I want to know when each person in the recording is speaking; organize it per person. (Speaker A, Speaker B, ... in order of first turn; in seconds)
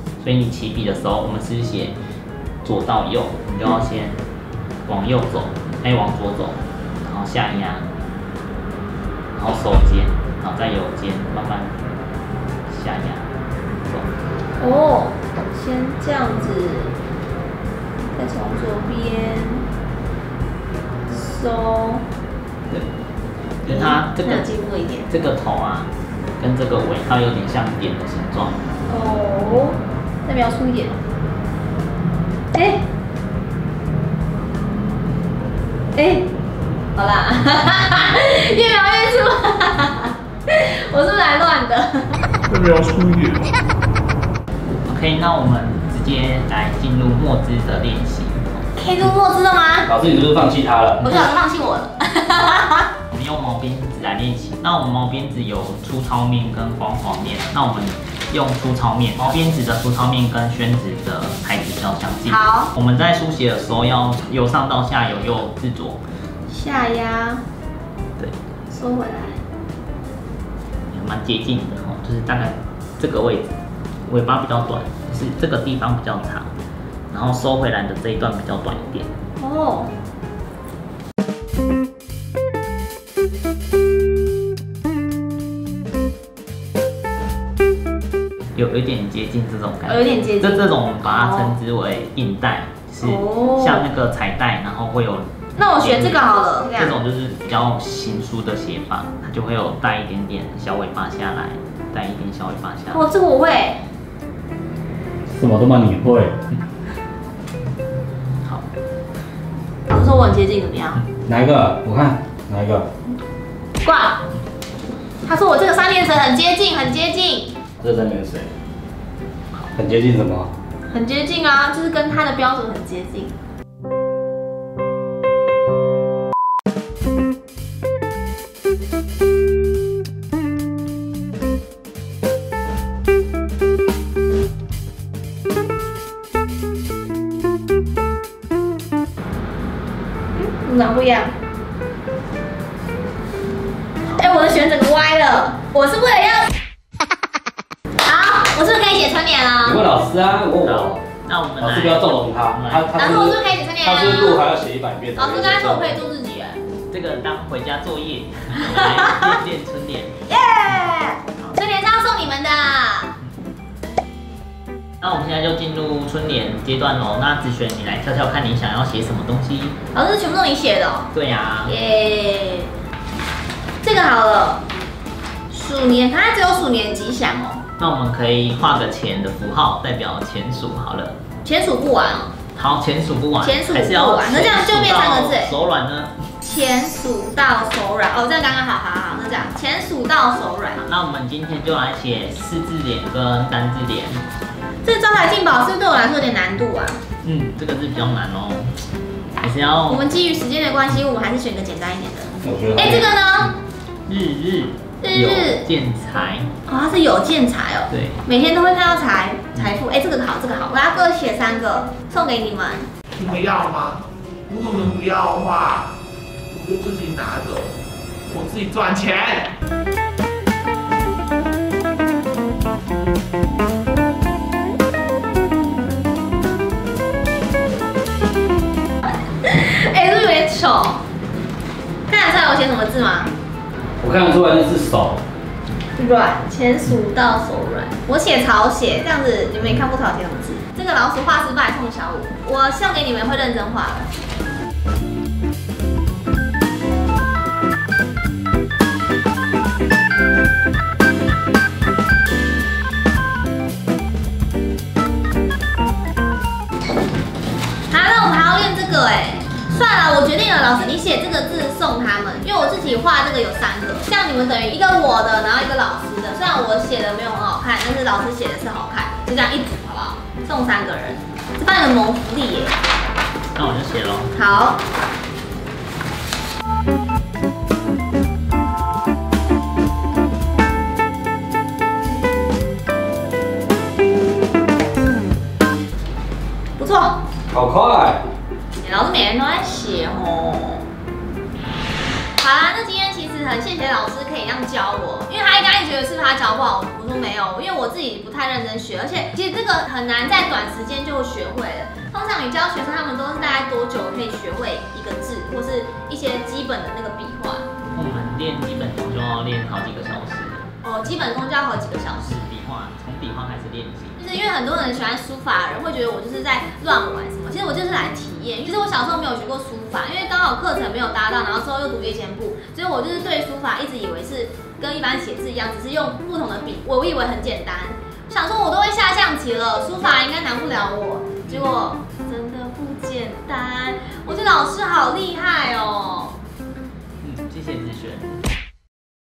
Speaker A: 0.2-2.0, 2.6-4.2, 4.8-7.9, 9.3-11.8, 12.7-14.1, 23.6-24.5, 25.1-28.7, 44.8-48.7, 53.1-66.0, 70.9-73.5, 74.0-76.5, 77.1-79.1, 88.5-103.0, 144.0-144.5, 150.6-153.2, 156.9-160.2, 165.0-169.8, 171.1-171.7, 177.8-181.2, 182.5-186.2, 190.8-194.2, 197.2-198.9, 199.4-200.1, 202.8-203.5, 204.1-206.5, 207.9-208.2, 273.5-274.4, 307.9-310.7, 312.2-314.2, 331.5-331.9, 337.2-338.4
Speaker B: 14.6-16.9, 18.1-19.7, 21.1-22.1, 23.7-25.1, 28.9-31.0, 32.5-32.9, 35.9-36.3, 36.9-42.2, 48.8-49.9, 51.0-52.9, 62.2-62.7, 66.5-67.4, 68.7-69.4, 79.4-79.9, 89.8-91.5, 93.0-93.8, 95.5-97.0, 102.9-103.8, 109.9-111.0, 113.8-114.2, 115.2-117.5, 120.9-123.3, 140.3-141.3, 144.2-146.5, 148.0-149.8, 152.9-154.5, 155.2-156.6, 158.6-159.3, 160.3-163.2, 169.9-171.1, 171.7-172.7, 173.8-174.6, 175.5-177.6, 181.4-182.3, 183.4-185.5, 186.4-190.8, 194.8-197.0, 199.9-203.5, 205.0-205.6, 206.7-212.9, 229.4-231.0, 232.1-233.3, 235.9-244.1, 257.9-272.8, 274.4-274.8, 286.8-287.2, 288.8-290.9, 292.4-307.7, 310.8-312.4, 314.2-336.4
Speaker C: 42.5-43.5, 213.2-215.9, 216.5-219.5
Speaker D: 49.9-51.1, 105.3-106.4, 111.3-112.9, 117.8-118.5, 119.7-120.5, 149.6-151.0, 151.6-156.0, 202.4-203.1, 234.0-235.2, 287.5-288.2